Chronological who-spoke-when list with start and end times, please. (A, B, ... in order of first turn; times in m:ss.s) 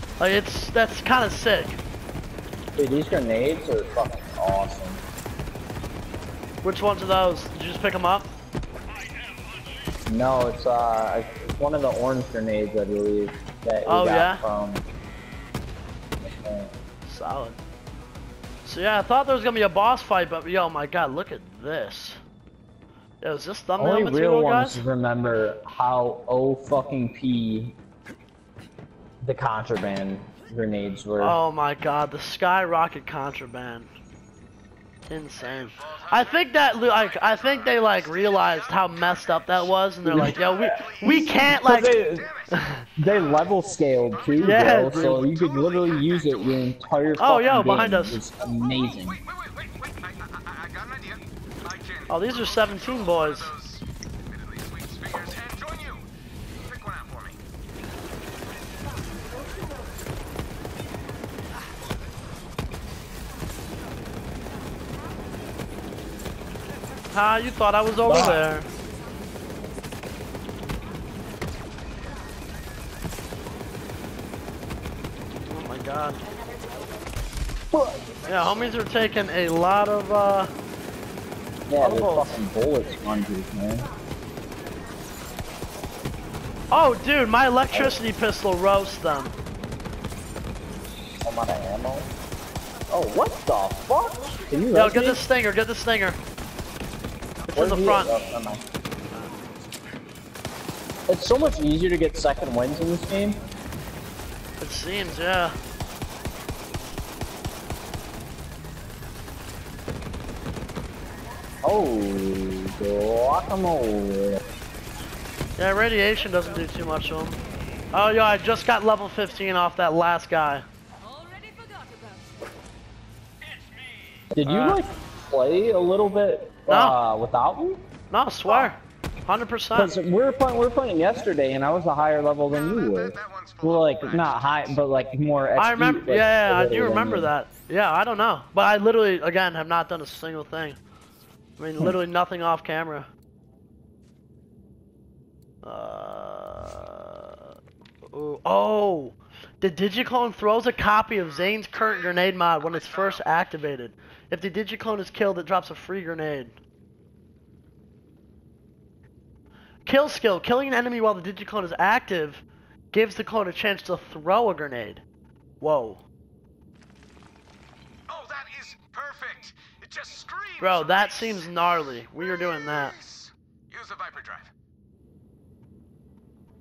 0:00.2-0:01.8 A
0:02.8-0:05.0 B
0:06.6-0:08.3 A
0:09.0-0:09.3 C
0:10.1-0:14.8 B
0:13.9-0:14.4 A
0:16.2-0:16.7 B
0:17.1-0:17.6 A
0:18.6-0:22.2 A
0:23.2-0:24.8 A
0:23.8-0:27.8 B
0:29.2-0:31.4 B
0:31.2-0:33.9 A
0:35.1-0:42.0 A
0:35.4-0:43.5 C
0:40.0-0:42.3 B
0:42.5-0:42.8 A
0:43.0-0:49.2 B
0:44.1-0:47.7 C
0:44.4-0:45.3 A
0:47.2-0:48.2 A
0:48.8-0:56.1 C
0:52.1-0:53.5 A
0:56.6-0:57.4 C
1:07.1-1:08.7 A
1:08.0-1:08.5 B
1:15.5-1:16.3 A
1:17.7-1:18.2 B
1:18.3-1:20.5 A
1:21.7-1:23.9 B
1:21.8-1:22.4 A
1:26.7-1:29.4 A
1:27.7-1:28.0 B
1:31.2-1:32.1 B
1:32.9-1:35.2 B
1:34.7-1:36.2 A
1:37.5-1:38.1 A
1:37.6-1:38.6 B
1:41.1-1:43.4 B
1:44.6-1:45.6 A
1:51.6-1:54.4 B
1:55.6-1:57.4 A
1:57.9-2:00.6 A
2:03.4-2:04.2 C
2:04.3-2:07.8 B
2:04.4-2:04.8 A
2:06.7-2:07.0 A
2:08.1-2:09.9 A
2:08.5-2:08.7 B
2:09.7-2:17.3 B
2:12.5-2:14.8 C
2:15.6-2:20.8 A
2:21.6-2:23.1 A
2:25.6-2:27.4 A
2:28.1-2:36.5 A
2:31.2-2:33.3 C
2:39.9-2:45.0 A
2:45.6-2:46.0 A
2:48.1-2:51.6 C
2:50.6-2:53.0 A
2:52.2-2:54.5 C